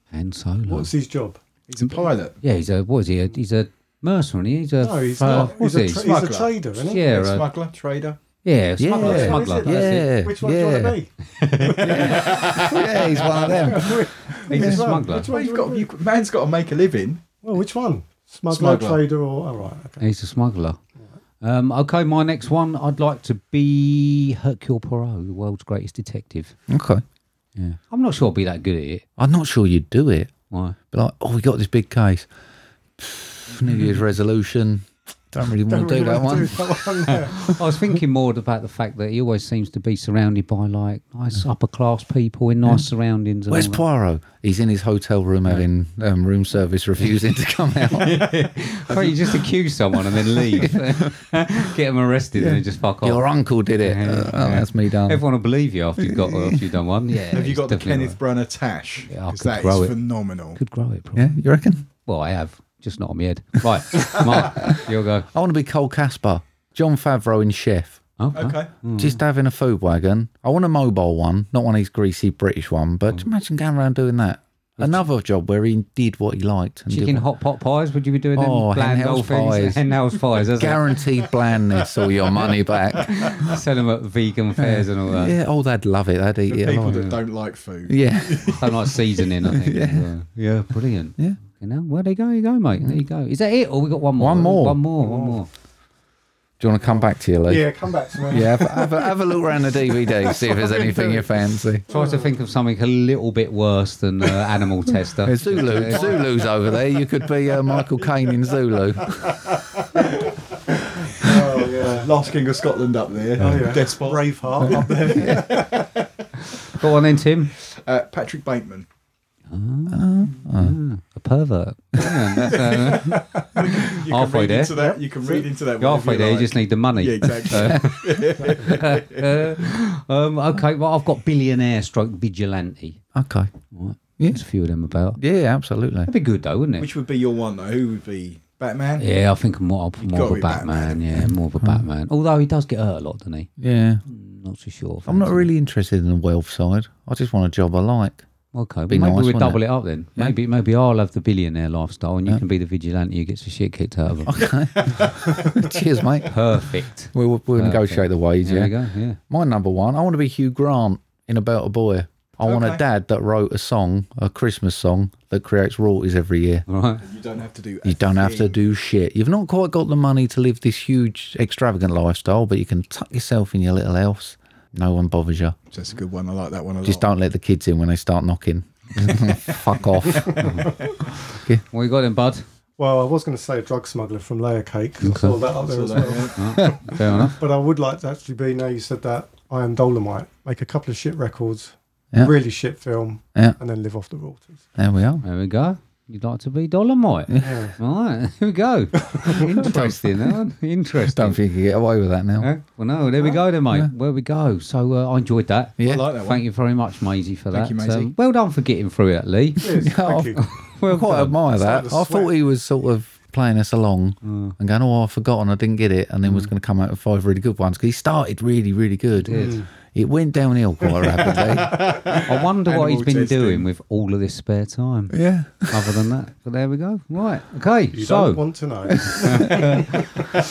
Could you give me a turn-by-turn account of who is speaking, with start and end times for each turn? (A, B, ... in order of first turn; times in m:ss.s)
0:00.1-0:00.9 A
0:00.7-0:01.4 B
0:01.7-0:02.4 C
0:01.8-0:06.0 A
0:04.8-0:07.0 B
0:05.3-0:08.2 C
0:06.9-0:07.5 A
0:08.4-0:10.1 A
0:08.8-0:11.0 D
0:09.0-0:12.6 B
0:11.3-0:13.0 A
0:11.8-0:14.8 D
0:13.7-0:15.9 B
0:14.5-0:15.3 A
0:15.2-0:17.2 C
0:17.4-0:20.0 B
0:18.5-0:19.0 C
0:20.0-0:20.8 A
0:21.4-0:26.6 A
0:26.7-0:27.0 D
0:27.6-0:29.0 A
0:29.2-0:30.3 D
0:30.5-0:30.8 A
0:30.9-0:32.3 D
0:33.0-0:36.7 D
0:35.7-0:37.5 B
0:37.4-0:43.8 A
0:43.5-0:48.2 D
0:47.9-0:53.2 A
0:52.4-0:55.2 D
0:53.8-0:58.2 A
0:56.0-0:56.6 D
0:57.3-1:00.6 C
0:59.1-1:00.0 A
1:00.5-1:01.4 A
1:01.2-1:01.8 D
1:01.9-1:05.3 A
1:05.3-1:08.0 D
1:08.2-1:09.2 A
1:08.3-1:08.7 C
1:08.9-1:17.2 D
1:14.8-1:15.0 A
1:16.9-1:21.0 A
1:18.4-1:19.9 D
1:20.6-1:23.5 D
1:23.1-1:25.4 A
1:24.6-1:27.1 D
1:26.5-1:29.0 C
1:26.9-1:27.2 A
1:27.9-1:28.6 D
1:28.5-1:35.5 A
1:29.5-1:30.1 D
1:34.2-1:34.8 D
1:35.0-1:35.4 B
1:36.6-1:37.7 D
1:36.8-1:39.0 B
1:38.3-1:41.8 D
1:40.2-1:41.2 B
1:41.9-1:42.3 B
1:41.9-1:46.2 A
1:45.2-1:49.4 D
1:51.1-1:56.0 C
1:51.1-1:52.1 B
1:53.4-1:55.6 B
1:56.7-1:57.5 A
1:57.6-1:58.9 C
1:59.5-2:04.7 A
1:59.9-2:00.8 D
2:02.4-2:09.3 C
2:04.7-2:05.5 B
2:05.8-2:13.0 A
2:13.1-2:13.5 D
2:13.7-2:15.2 A
2:15.2-2:16.1 D
2:16.0-2:16.9 A
2:16.8-2:19.1 C
2:19.0-2:23.5 A
2:20.0-2:21.3 C
2:23.6-2:24.0 D
2:24.0-2:25.5 A
2:25.1-2:28.2 D
2:28.5-2:34.7 A
2:28.9-2:29.6 D
2:34.2-2:38.7 D
2:34.9-2:35.1 C
2:36.2-2:39.2 A
2:39.3-2:46.6 D
2:42.4-2:42.8 C
2:46.7-2:47.0 A
2:47.0-2:48.6 C
2:47.8-2:55.6 D
2:55.7-2:57.1 C
2:56.8-3:00.7 D
3:01.3-3:01.6 D
3:01.7-3:02.4 A
3:02.8-3:14.7 B
3:05.0-3:05.4 A
3:05.6-3:06.5 C
3:06.4-3:07.4 A
3:14.8-3:15.2 D
3:15.2-3:21.4 A
3:17.4-3:17.8 B
3:19.2-3:19.4 B
3:19.5-3:20.0 D
3:21.1-3:22.5 D
3:22.4-3:29.8 A
3:25.8-3:26.0 D
3:25.8-3:26.4 C
3:27.5-3:28.1 C
3:29.6-3:30.4 B
3:29.8-3:41.8 D
3:30.4-3:31.4 A
3:31.5-3:32.3 B
3:34.2-3:34.5 A
3:36.2-3:36.5 A
3:39.2-3:39.6 A
3:39.2-3:39.7 B
3:41.4-3:43.6 C
3:42.2-3:50.2 A
3:45.1-3:45.9 D
3:47.9-3:50.2 B